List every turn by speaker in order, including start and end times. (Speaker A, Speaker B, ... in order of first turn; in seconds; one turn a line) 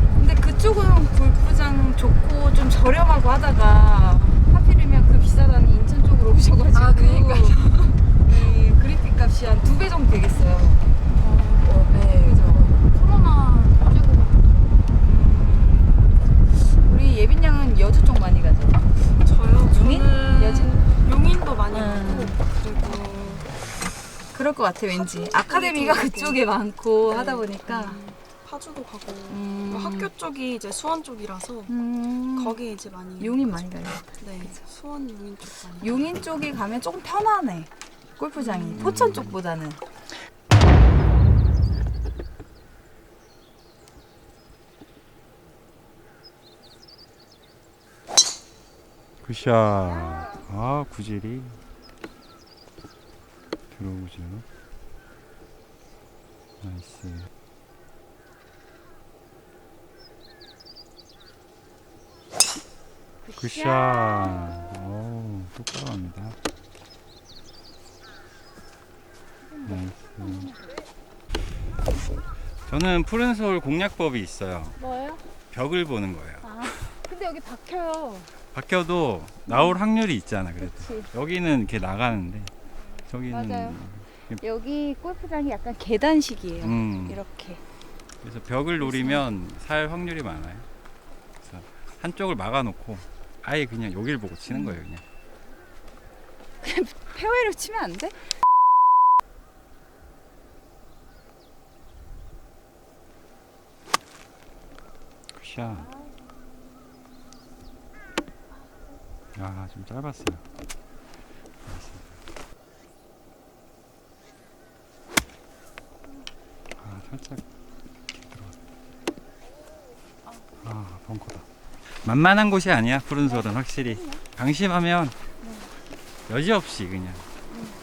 Speaker A: 0.2-7.7
Speaker B: 6.7-7.9
Speaker A: 8.2-10.9
Speaker B: 11.2-14.8
Speaker A: 11.8-12.7
Speaker A: 15.0-18.9
Speaker C: 19.2-23.4
Speaker A: 19.6-20.8
Speaker B: 21.7-22.3
Speaker A: 21.8-23.0
Speaker A: 24.3-28.0
Speaker C: 25.0-26.4
Speaker C: 27.0-31.7
Speaker A: 29.3-30.1
Speaker A: 31.7-32.6
Speaker C: 32.4-33.5
Speaker A: 33.2-34.5
Speaker C: 34.2-36.2
Speaker A: 35.8-39.8
Speaker C: 38.4-39.3
Speaker D: 38.8-39.3
Speaker D: 49.2-51.6
Speaker D: 53.7-54.5
Speaker D: 56.6-57.3
Speaker A: 63.2-64.7
Speaker D: 63.4-66.4
Speaker A: 69.5-70.8
Speaker D: 69.7-70.5
Speaker D: 72.7-74.8
Speaker A: 74.8-75.2
Speaker D: 75.5-76.7
Speaker A: 76.4-78.3
Speaker D: 78.5-82.5
Speaker A: 79.5-79.7
Speaker A: 80.6-81.1
Speaker D: 83.1-84.4
Speaker A: 83.3-83.8
Speaker A: 84.4-87.6
Speaker D: 86.6-87.2
Speaker D: 88.2-90.7
Speaker A: 88.8-89.2
Speaker D: 91.4-95.0
Speaker A: 94.5-94.8
Speaker A: 96.6-98.2
Speaker D: 105.3-105.9
Speaker D: 109.3-110.4
Speaker D: 111.6-112.2
Speaker D: 116.8-117.4
Speaker D: 118.1-118.5
Speaker D: 120.6-121.4
Speaker D: 122.0-125.2
Speaker D: 126.3-127.2